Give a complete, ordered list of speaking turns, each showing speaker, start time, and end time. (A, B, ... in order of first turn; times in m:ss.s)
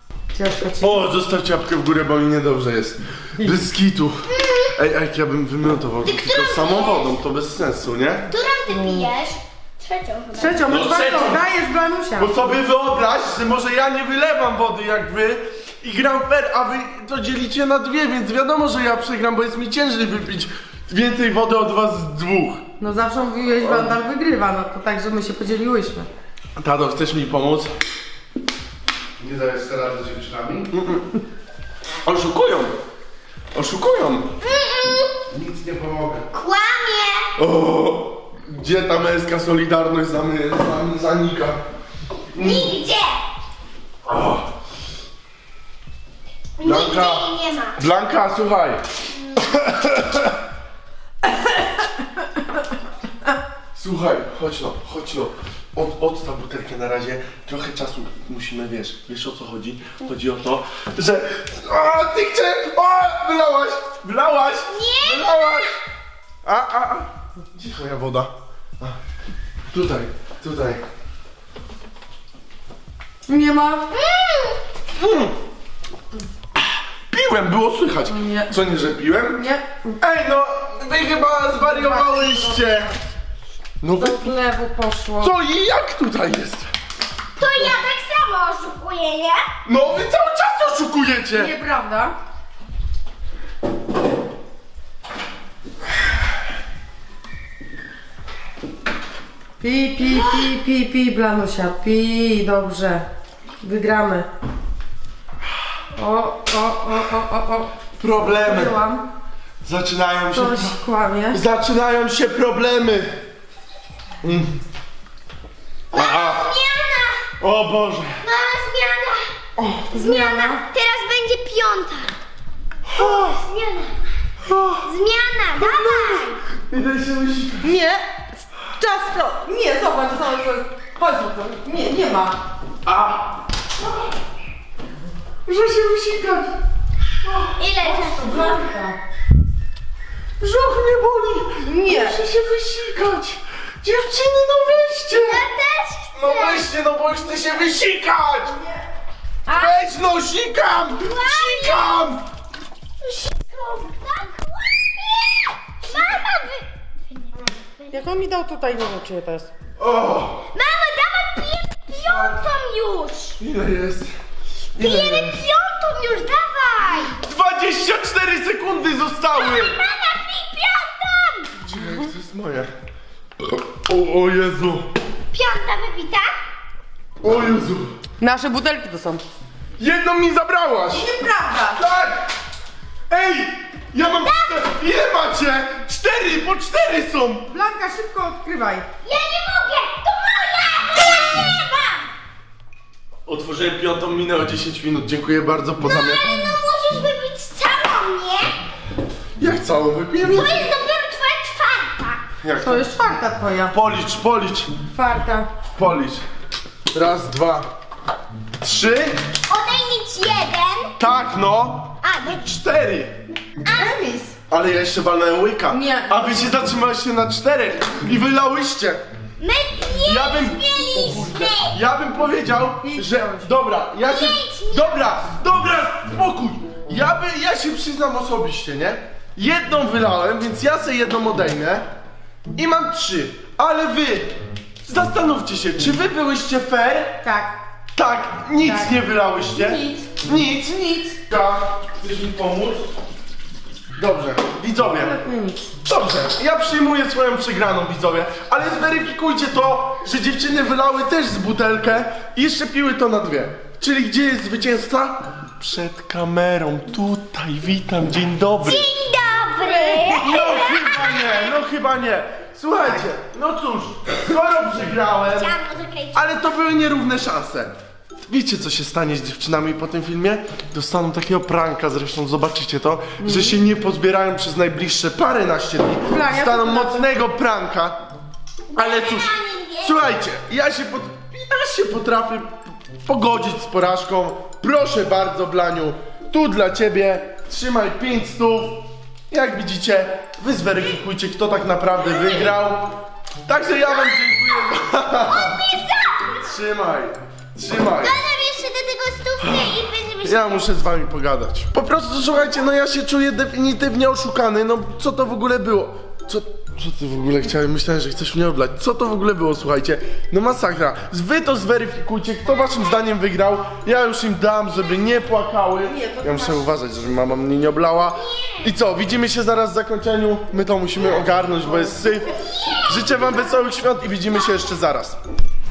0:00.3-0:01.0 A
0:00.8-0:08.3 B
0:04.3-0:04.7 C
0:06.0-0:07.1 C
0:08.3-0:10.8 C
0:08.7-0:09.1 A
0:10.4-0:12.5 A
0:10.7-0:11.5 B
0:12.2-0:22.6 B
0:22.8-0:26.1 A
0:23.6-0:24.0 B
0:26.6-0:27.7 B
0:29.2-0:31.2 B
0:32.0-0:32.7 B
0:33.5-0:34.3 B
0:34.4-0:35.2 C
0:35.3-0:36.3 B
0:36.3-0:37.3 C
0:37.4-0:41.6 B
0:42.3-0:42.8 B
0:42.4-0:43.2 C
0:44.1-0:44.5 B
0:46.6-0:47.8 C
0:46.6-0:47.2 B
0:47.8-0:48.8 B
0:49.2-0:49.4 C
0:49.4-0:50.4 B
0:53.8-1:05.7 B
1:04.7-1:05.7 C
1:06.4-1:09.0 B
1:09.7-1:10.8 B
1:13.3-1:13.9 A
1:13.9-1:14.6 C
1:15.0-1:15.3 B
1:17.1-1:19.5 B
1:18.1-1:18.5 A
1:19.4-1:20.0 A
1:20.0-1:22.9 B
1:21.5-1:22.8 A
1:23.8-1:24.4 B
1:24.0-1:25.3 A
1:25.2-1:26.7 B
1:27.4-1:29.5 C
1:29.7-1:31.6 B
1:31.3-1:32.2 A
1:39.6-1:43.0 A
1:43.6-1:44.3 A
1:46.0-1:47.7 A
1:48.0-1:48.8 B
1:48.3-1:49.0 A
1:49.6-1:50.8 B
1:50.3-1:51.4 A
1:51.3-1:53.2 B
1:54.2-1:54.6 B
1:55.9-1:57.2 C
1:55.9-1:56.5 B
1:57.4-1:58.2 B
1:58.2-1:59.3 C
1:59.6-1:59.9 B
1:59.9-2:00.6 A
1:59.9-2:02.1 C
2:02.9-2:03.4 B
2:03.0-2:04.0 C
2:04.4-2:04.9 B
2:04.8-2:06.4 C
2:05.6-2:07.7 B
2:07.6-2:12.4 A
2:12.8-2:13.4 B
2:15.5-2:16.6 B
2:17.6-2:18.6 C
2:17.8-2:19.0 A
2:20.4-2:25.4 B
2:21.6-2:22.2 A
2:25.1-2:26.7 C
2:26.2-2:28.6 B
2:29.5-2:29.8 C
2:29.5-2:32.2 B
2:31.0-2:32.1 C
2:33.0-2:38.1 C
2:37.9-2:39.5 A
2:39.8-2:40.5 B
2:40.5-2:43.4 C
2:42.0-2:42.4 B
2:43.4-2:44.1 B
2:44.8-2:45.4 B
2:44.8-2:47.2 C
2:47.2-2:49.8 B
2:49.3-2:51.6 C
2:51.6-2:52.7 B
2:53.4-2:54.9 B
2:55.3-2:56.3 C
2:57.2-2:57.9 B
2:58.2-2:59.2 A
2:59.8-3:01.1 B
3:00.9-3:01.8 A
3:01.7-3:02.3 B
3:03.1-3:07.5 B
3:04.2-3:04.6 C
3:07.5-3:08.9 A
3:09.0-3:12.1 C
3:13.3-3:16.6 B
3:15.8-3:18.6 C
3:19.4-3:20.7 B
3:20.2-3:22.2 C
3:22.4-3:22.9 B
3:22.6-3:23.7 A
3:23.7-3:24.7 B
3:24.9-3:25.5 A
3:25.8-3:26.2 B
3:26.9-3:27.7 B
3:28.6-3:29.2 B
3:29.5-3:31.0 C
3:31.0-3:33.2 B
3:32.0-3:32.4 C
3:33.6-3:34.0 C
3:33.7-3:34.4 A
3:34.5-3:39.0 B
3:35.7-3:36.6 A
3:39.4-3:41.8 C
3:40.0-3:51.9 B
3:42.8-3:43.5 A
3:44.0-3:45.2 C
3:52.6-3:57.2 B
3:57.2-3:57.5 A
3:58.0-4:02.9 B
3:58.6-3:59.0 A
3:59.5-4:00.1 A
4:04.0-4:05.2 B
4:04.8-4:05.7 A
4:05.8-4:18.9 B
4:18.6-4:21.6 C
4:19.6-4:20.4 A
4:20.2-4:25.6 B
4:25.3-4:26.3 C
4:26.1-4:27.7 B
4:28.3-4:38.0 B
4:33.2-4:33.6 A
4:36.1-4:37.1 A
4:38.7-4:40.2 C
4:38.8-4:55.6 B
4:52.0-4:52.6 C
4:53.8-4:56.5 C
4:56.4-4:58.2 B
4:58.0-5:00.8 C
4:59.4-5:25.2 B
5:12.5-5:12.9 C
5:15.8-5:16.7 A
5:18.2-5:18.7 C
5:22.4-5:23.5 C